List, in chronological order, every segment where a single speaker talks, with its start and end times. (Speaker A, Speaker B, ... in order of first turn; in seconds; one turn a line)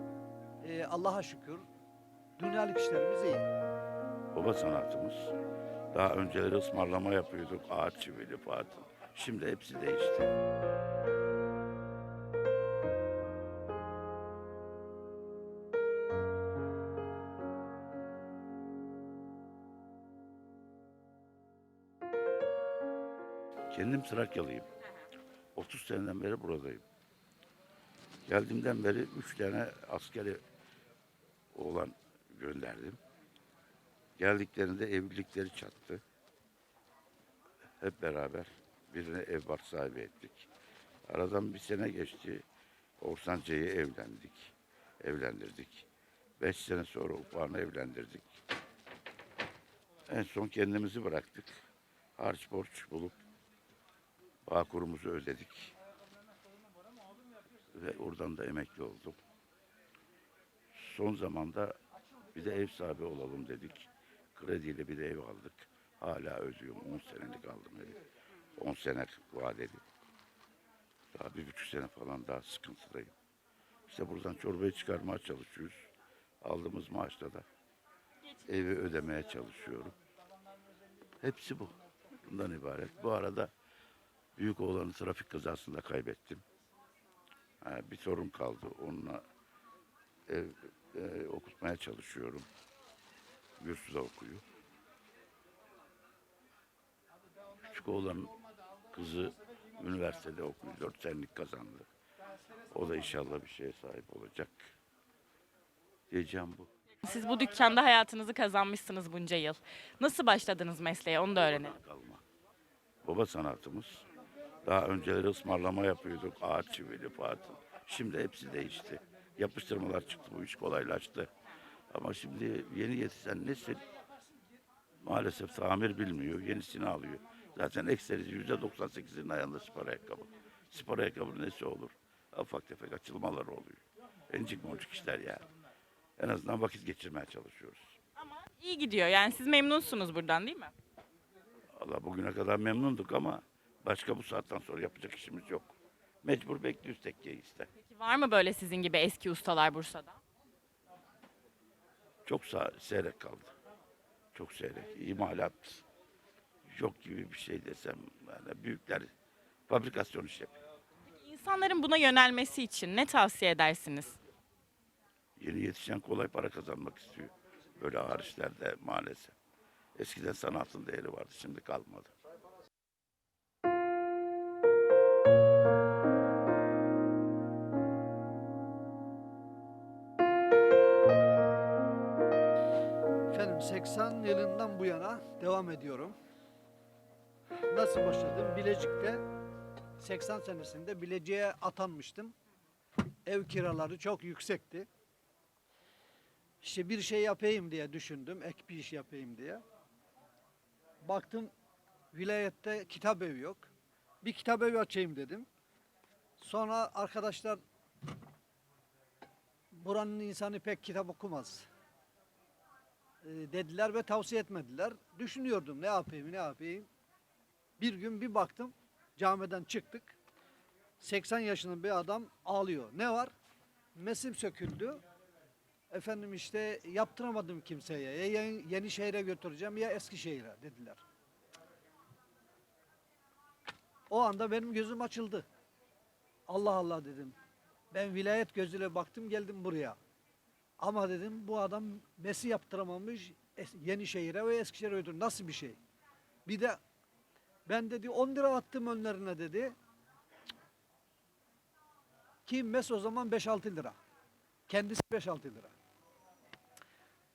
Speaker A: 0.6-1.6
Speaker A: 2.4-3.5
Speaker B: 4.3-5.3
Speaker B: 5.9-10.3
Speaker B: 23.7-24.7
Speaker B: 25.6-26.8
Speaker B: 28.2-30.4
Speaker B: 31.5-33.0
Speaker B: 34.2-36.0
Speaker B: 37.8-40.5
Speaker B: 41.1-42.5
Speaker B: 43.0-45.9
Speaker B: 46.4-48.4
Speaker B: 50.1-51.5
Speaker B: 52.2-53.2
Speaker B: 54.5-55.7
Speaker B: 57.7-59.2
Speaker B: 60.7-61.8
Speaker B: 62.3-68.0
Speaker B: 68.5-69.8
Speaker B: 71.1-73.1
Speaker B: 73.9-75.9
Speaker B: 76.4-77.5
Speaker B: 78.4-80.0
Speaker B: 81.2-83.5
Speaker B: 84.4-86.4
Speaker B: 87.6-89.2
Speaker B: 90.3-92.5
Speaker B: 93.6-94.4
Speaker B: 97.6-98.3
Speaker B: 98.9-101.9
Speaker B: 102.7-104.7
Speaker B: 106.1-106.7
Speaker C: 107.0-111.8
Speaker B: 111.5-112.2
Speaker B: 113.0-114.0
Speaker B: 114.6-121.3
Speaker B: 121.9-123.8
Speaker B: 125.0-135.4
Speaker B: 136.2-137.9
Speaker C: 138.2-140.7
Speaker B: 141.8-147.7
Speaker C: 147.8-150.2
Speaker B: 152.2-153.5
Speaker B: 154.3-155.8
Speaker B: 156.7-159.1
Speaker B: 159.7-160.5
Speaker C: 161.1-164.2
Speaker B: 165.4-169.3
Speaker B: 169.9-172.1
Speaker A: 183.3-186.2
Speaker A: 187.6-189.2
Speaker A: 190.0-192.3
Speaker A: 193.2-194.9
Speaker A: 196.6-199.6
Speaker A: 201.0-201.5
Speaker A: 202.1-203.7
Speaker A: 204.2-205.5
Speaker A: 206.4-207.6
Speaker A: 209.7-211.7
Speaker A: 213.2-216.8
Speaker A: 217.8-220.2
Speaker A: 221.0-223.3
Speaker A: 223.9-225.0
Speaker A: 225.9-231.0
Speaker A: 234.1-235.4
Speaker A: 236.5-237.3
Speaker A: 237.9-240.0
Speaker A: 240.8-245.8
Speaker A: 246.4-246.8
Speaker A: 247.7-249.8
Speaker A: 252.4-253.9
Speaker A: 254.7-255.7